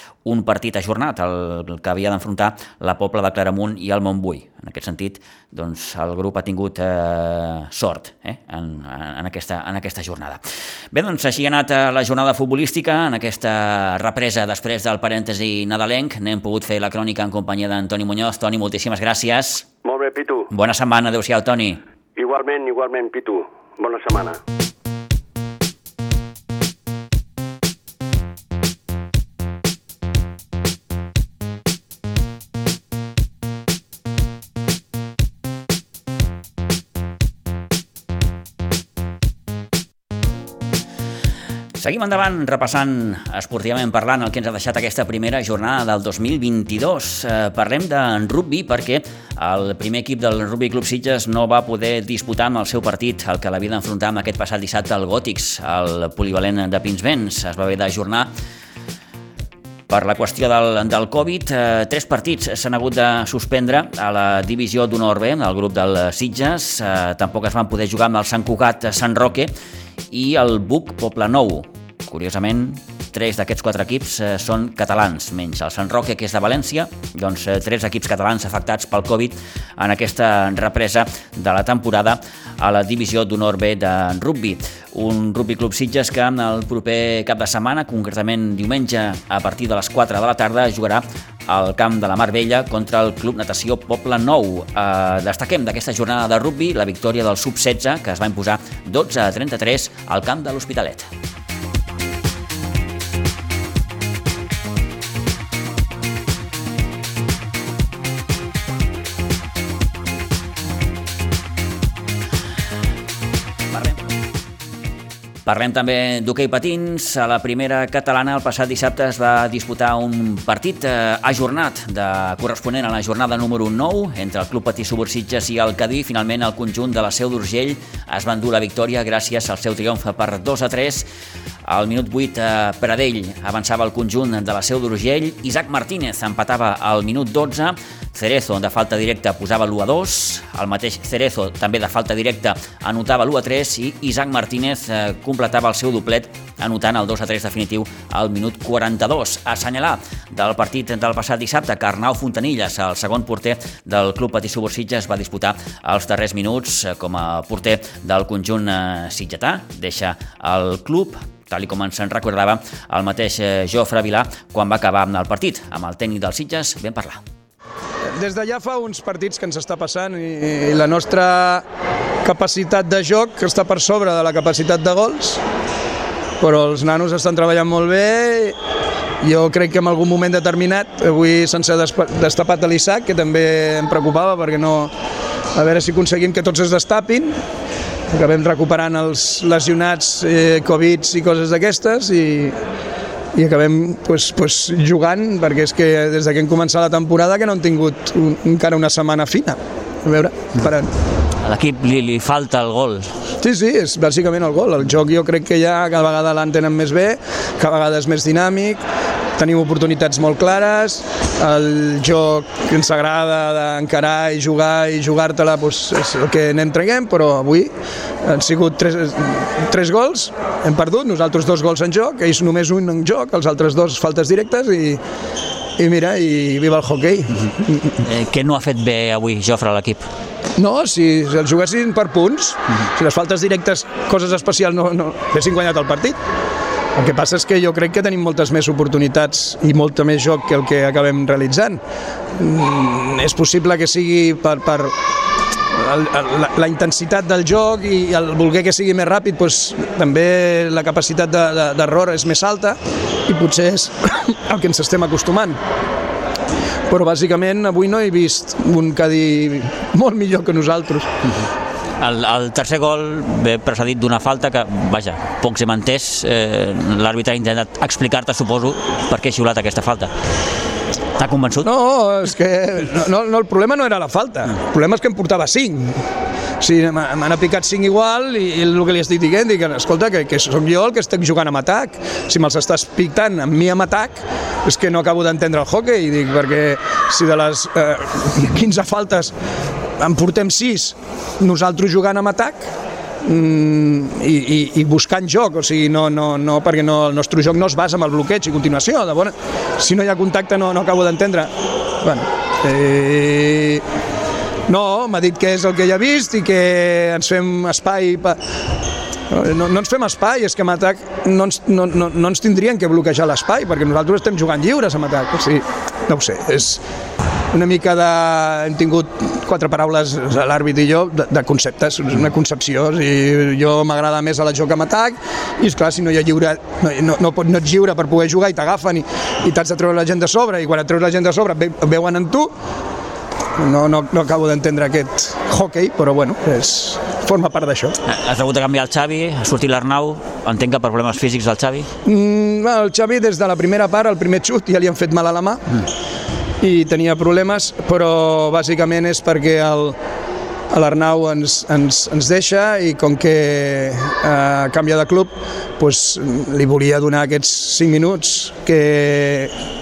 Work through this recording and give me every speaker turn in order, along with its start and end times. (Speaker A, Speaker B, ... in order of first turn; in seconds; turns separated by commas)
Speaker A: 0.2-19.7, Speaker B: 19.8-20.5, Speaker A: 20.5-21.8, Speaker B: 22.1-24.4, Speaker A: 41.8-58.3, Speaker A: 59.9-69.5, Speaker A: 70.1-101.1, Speaker A: 113.7-114.0, Speaker A: 115.4-131.1, Speaker A: 131.7-167.2, Speaker C: 168.2-171.6, Speaker C: 172.2-175.4, Speaker C: 176.4-178.6, Speaker C: 179.2-184.9, Speaker C: 185.5-187.3, Speaker C: 188.1-192.6, Speaker C: 193.3-200.9, Speaker A: 201.4-203.3, Speaker C: 203.4-208.8, Speaker C: 209.4-217.7, Speaker C: 218.2-225.0, Speaker C: 225.8-227.9, Speaker A: 228.0-230.1, Speaker C: 230.6-236.2, Speaker C: 236.9-241.8, Speaker C: 242.4-244.9, Speaker C: 245.7-255.6, Speaker C: 256.9-261.1, Speaker A: 262.0-270.1, Speaker A: 271.1-271.7, Speaker C: 271.6-275.9, Speaker C: 276.6-289.3, Speaker C: 290.0-292.6, Speaker C: 293.2-303.8, Speaker C: 304.7-308.4, Speaker C: 309.3-316.8, Speaker C: 317.5-332.5, Speaker C: 333.6-338.0, Speaker A: 338.0-341.9, Speaker C: 342.1-345.8, Speaker C: 346.6-349.9, Speaker C: 350.7-359.5